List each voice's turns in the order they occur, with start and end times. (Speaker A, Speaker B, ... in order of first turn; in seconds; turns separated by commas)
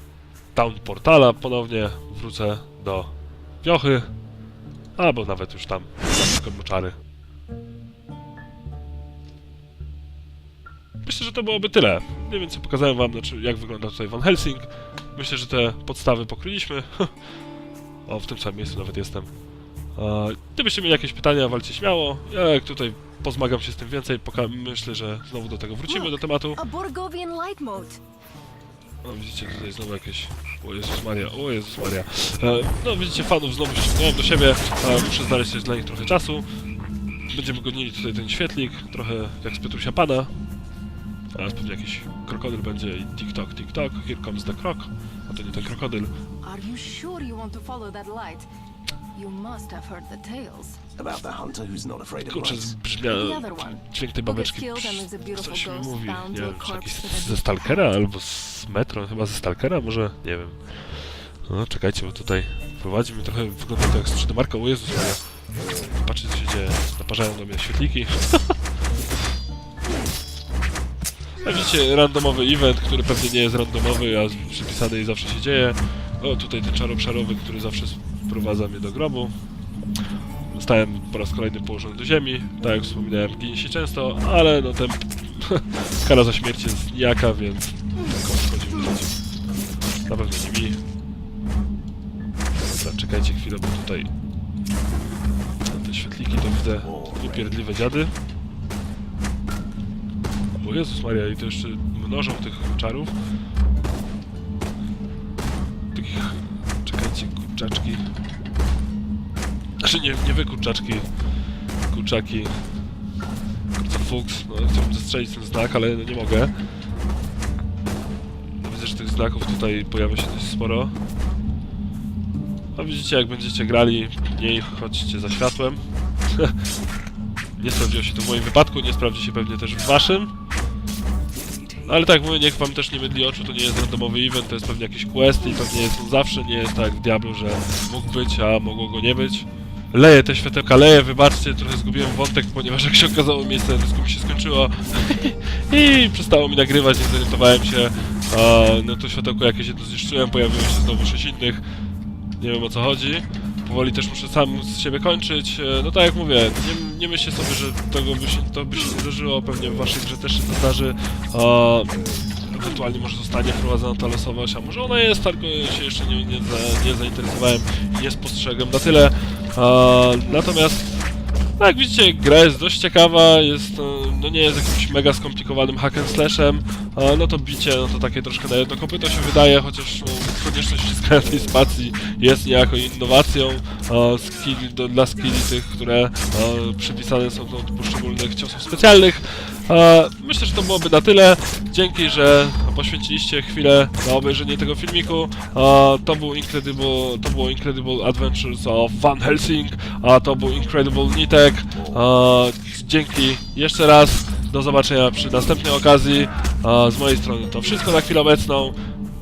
Speaker A: 0.5-3.1, Speaker A: 3.6-4.1, Speaker A: 5.0-7.0, Speaker A: 11.0-17.1, Speaker A: 18.1-19.3, Speaker A: 19.9-26.6, Speaker B: 25.9-28.0, Speaker A: 29.0-36.4, Speaker A: 37.3-40.3, Speaker A: 41.3-46.1, Speaker B: 46.4-48.5, Speaker B: 49.1-50.8, Speaker C: 51.0-52.8, Speaker A: 52.2-65.2, Speaker B: 53.0-57.9, Speaker A: 65.8-68.5, Speaker A: 71.4-79.3, Speaker A: 80.5-89.1, Speaker A: 90.1-90.8, Speaker A: 92.6-94.1, Speaker A: 95.6-98.1, Speaker C: 96.8-97.6, Speaker A: 100.6-103.1, Speaker A: 105.9-108.0, Speaker A: 109.8-111.1, Speaker A: 111.9-112.6, Speaker A: 113.7-116.5, Speaker A: 118.6-121.0, Speaker A: 122.7-126.5, Speaker A: 127.6-130.3, Speaker A: 131.8-151.6, Speaker A: 152.4-208.7